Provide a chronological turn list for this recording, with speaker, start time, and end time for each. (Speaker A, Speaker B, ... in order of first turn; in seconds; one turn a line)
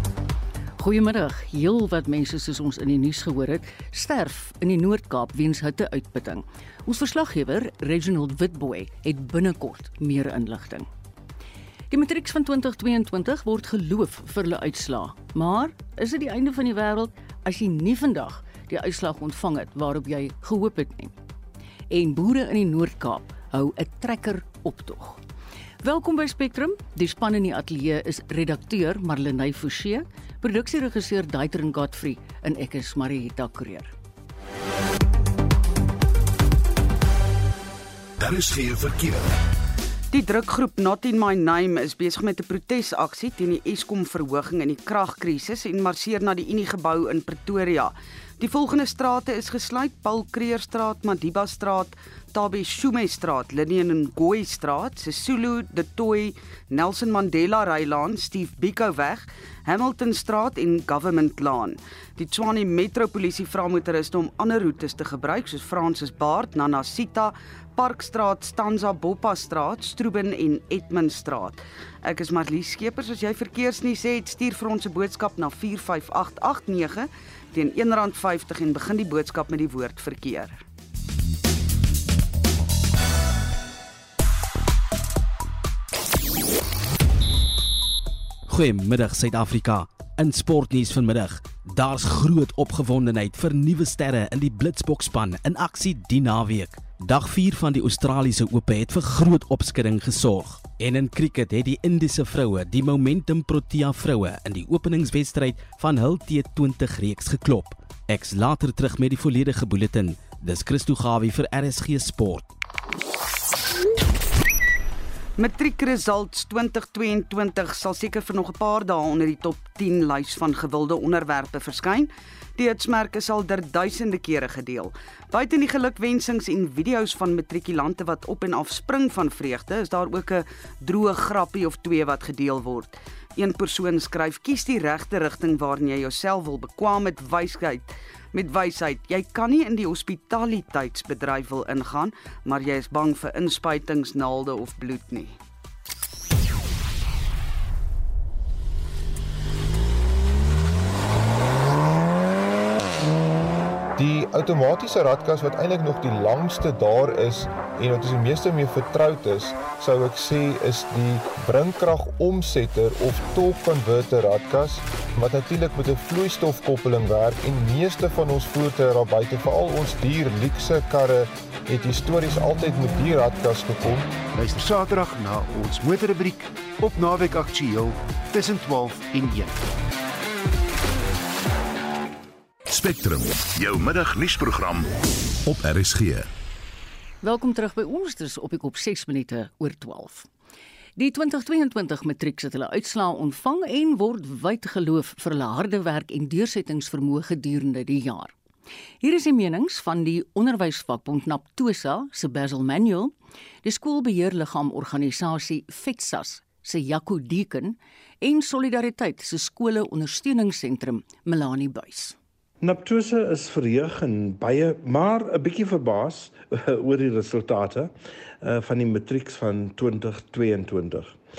Speaker A: 0.8-10.9
Speaker A: 11.9-21.1
Speaker A: 21.9-25.2
Speaker A: 25.8-33.9
Speaker B: 38.2-39.4
Speaker C: 40.1-80.6
Speaker D: 88.5-112.5
Speaker C: 115.4-145.4
Speaker E: 154.0-174.1
Speaker F: 174.3-179.6
Speaker B: 182.7-184.9
Speaker B: 185.4-186.3
Speaker A: 187.2-190.3
Speaker A: 191.0-198.3
Speaker A: 199.0-212.2
Speaker G: 212.6-221.2